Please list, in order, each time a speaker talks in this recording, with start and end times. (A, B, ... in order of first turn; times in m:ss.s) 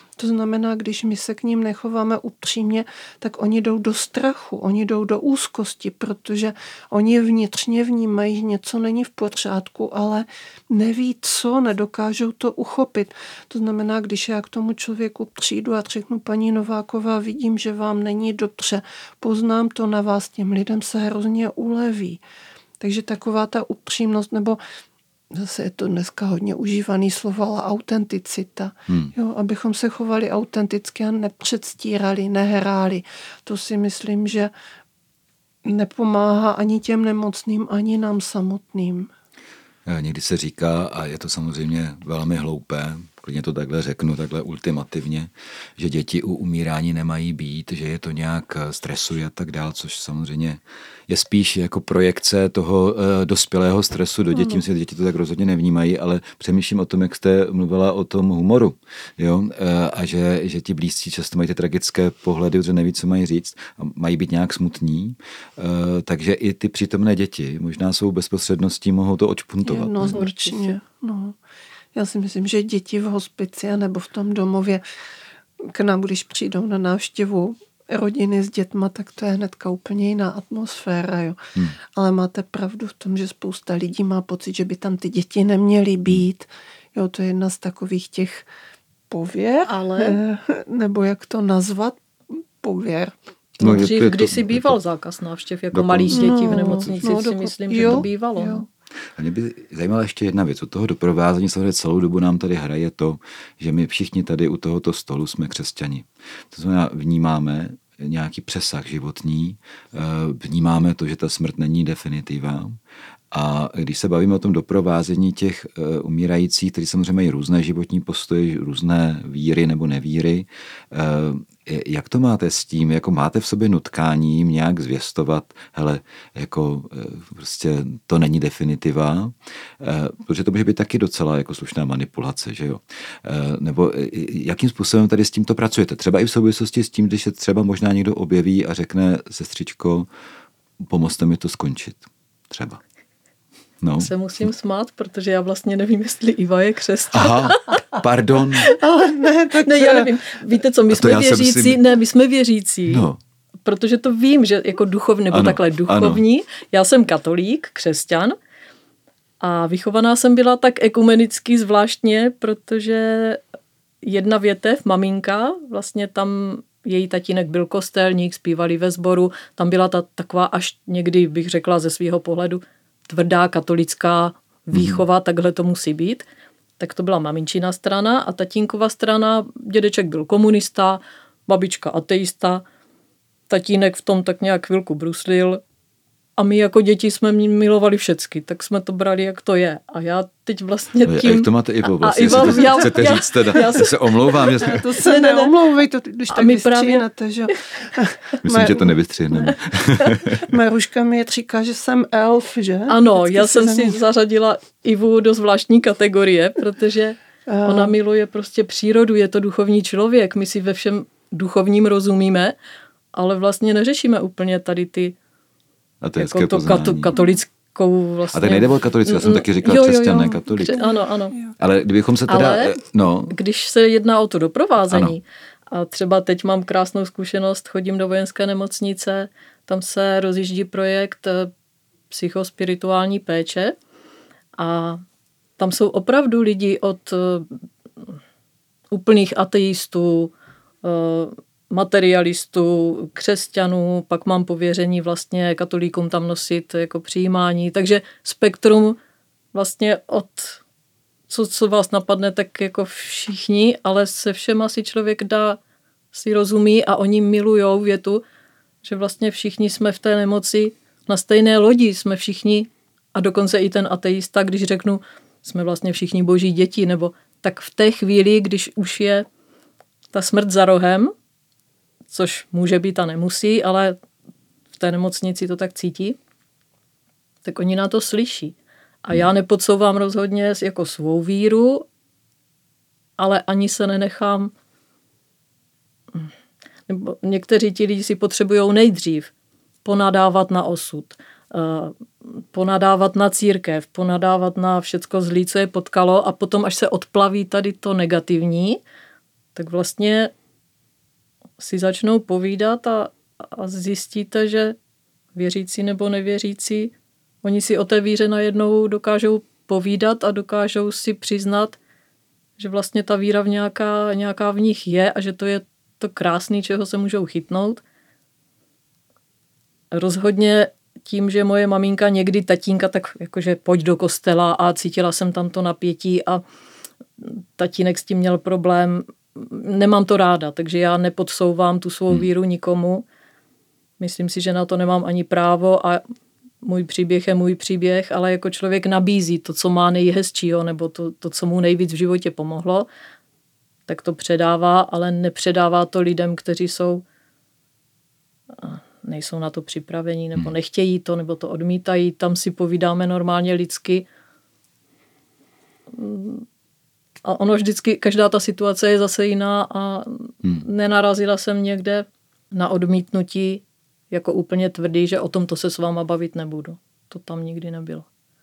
0:00.2-0:22.2 A
0:22.8-0:24.6 A
0:25.3-0:34.5 A
0:35.6-0:39.1 A
0:39.8-1:10.2 B
1:09.6-1:11.4 A
1:10.1-1:10.7 C
1:11.9-1:14.8 A
1:15.6-1:21.4 A
1:21.9-1:28.4 A
1:29.1-1:33.1 A
1:29.6-1:30.2 C
1:33.6-1:38.6 C
1:33.6-1:34.8 B
1:35.7-1:37.0 B
1:36.1-1:38.6 A
1:37.8-1:38.0 B
1:39.2-1:52.8 B
1:53.3-2:20.1 B
2:20.8-2:22.8 B
2:23.8-2:24.1 B
2:24.0-2:27.8 C
2:27.1-2:28.7 B
2:28.7-2:30.1 A
2:29.6-2:33.1 C
2:30.9-2:31.8 B
2:32.9-2:33.2 B
2:33.6-2:38.4 C
2:35.3-2:36.2 B
2:39.4-2:43.4 C
2:44.0-2:56.2 C
2:54.7-2:55.0 B
2:56.8-3:02.6 C
3:03.5-3:05.6 C
3:06.4-3:15.5 C
3:11.0-3:14.8 B
3:14.4-3:19.6 A
3:16.3-3:17.0 C
3:18.4-3:20.4 B
3:20.3-3:24.0 A
3:22.9-3:32.6 C
3:27.5-3:28.0 A
3:33.1-3:35.1 C
3:36.0-3:37.1 B
3:36.2-3:41.4 C
3:37.1-3:37.4 A
3:38.3-3:40.8 B
3:40.7-3:41.5 A
3:41.6-3:43.3 B
3:42.3-3:51.5 C
3:44.9-3:45.1 B
3:52.1-3:53.7 C
3:54.6-3:55.0 C
3:55.6-3:57.6 C
3:58.9-4:09.0 C
4:09.5-4:10.6 C
4:11.3-4:15.6 C
4:16.1-4:18.2 C
4:18.8-4:29.3 C
4:30.1-4:31.1 C
4:32.1-4:34.0 C
4:34.7-4:36.2 C
4:37.4-4:41.9 C
4:43.2-4:44.5 C
4:46.9-4:49.3 C
4:49.8-4:58.8 C
4:59.5-5:00.3 C
5:01.6-5:04.8 C
5:05.3-5:11.8 C
5:12.6-5:17.8 C
5:19.9-5:26.4 C
5:27.2-5:33.0 C
5:34.0-5:36.0 C
5:36.6-5:42.9 C
5:43.9-5:47.0 C
5:48.6-5:54.0 C
5:55.9-5:56.4 C
5:57.2-6:08.0 C